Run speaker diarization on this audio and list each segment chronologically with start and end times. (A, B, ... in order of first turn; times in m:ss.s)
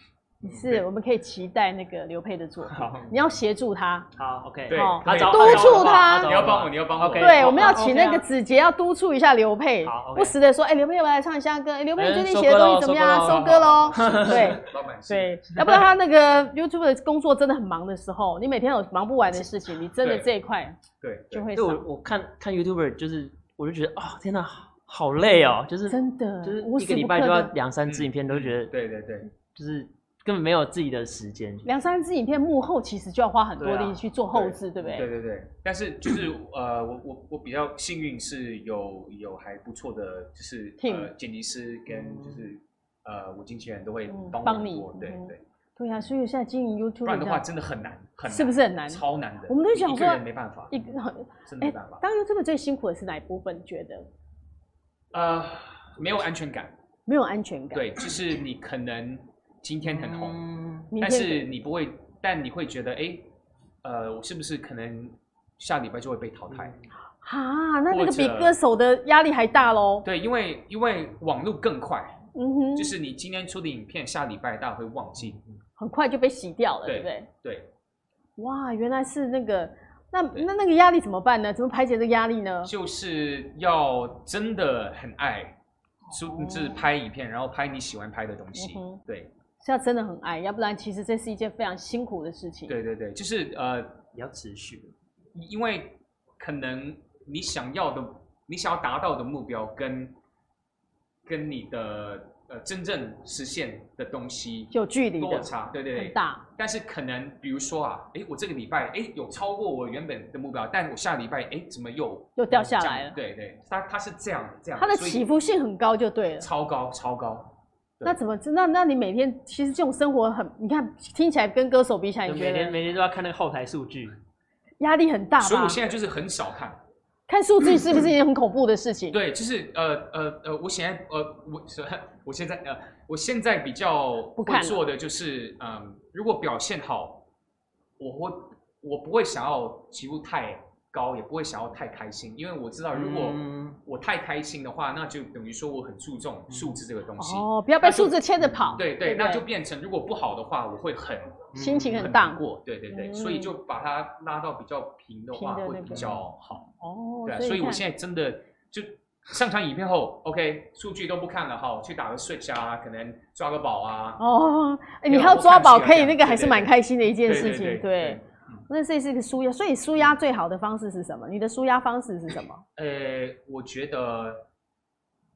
0:00.4-0:00.8 A
0:00.4-0:04.1 B
0:02.6-0:03.1 A
0:04.2-0:08.2 C
0:04.7-0:07.5 A
0:04.7-0:06.3 B
0:07.2-0:20.8 B
0:09.8-0:10.4 C
0:12.0-0:14.7 C
0:13.2-0:15.7 A
0:20.0-0:20.3 A
0:21.0-0:21.5 A
0:21.3-0:21.8 B
0:21.5-0:28.7 C
0:25.3-0:27.5 B
0:27.8-0:29.3 A
0:29.5-0:31.7 C
0:31.6-0:35.1 B
0:33.6-0:34.0 C
0:34.3-0:45.4 A
0:34.8-0:35.0 C
0:40.8-0:41.1 B
0:41.9-0:42.4 C
0:44.1-0:47.4 B
0:47.0-0:50.9 A
0:48.3-0:54.1 B
0:51.4-0:52.0 A
0:55.1-0:56.7 A
0:57.1-0:57.9 B
0:57.7-1:00.4 A
0:59.8-1:00.9 C
1:00.9-1:01.4 B
1:01.0-1:03.3 A
1:03.8-1:06.7 A
1:06.5-1:06.9 C
1:07.2-1:10.0 B
1:07.9-1:08.6 A
1:10.0-1:12.2 A
1:12.3-1:12.9 B
1:12.8-1:15.4 A
1:15.8-1:17.3 B
1:16.8-1:17.7 A
1:18.4-1:22.7 B
1:22.6-1:25.6 A
1:26.1-1:26.8 B
1:26.1-1:29.3 A
1:28.5-1:29.0 B
1:29.6-1:32.8 B
1:32.7-1:34.0 A
1:34.1-1:34.9 C
1:35.3-1:40.1 A
1:41.2-1:55.2 A
1:44.7-1:46.4 B
1:52.4-1:53.2 B
1:54.8-1:56.5 B
1:56.4-1:58.2 A
1:58.0-2:02.8 B
2:02.2-2:04.2 C
2:04.8-2:05.8 B
2:05.4-2:06.8 A
2:07.3-2:09.2 B
2:09.1-2:17.2 A
2:14.4-2:14.8 B
2:18.0-2:28.2 A
2:22.9-2:23.8 C
2:26.5-2:26.8 C
2:27.2-2:29.4 B
2:28.4-2:28.8 C
2:28.7-2:36.7 A
2:31.5-2:32.1 C
2:31.5-2:33.5 B
2:35.3-2:36.1 B
2:35.9-2:36.2 C
2:36.8-2:37.8 B
2:37.2-2:44.2 A
2:44.2-2:52.6 B
2:45.0-2:46.7 A
2:47.2-2:48.3 A
2:52.8-2:54.4 A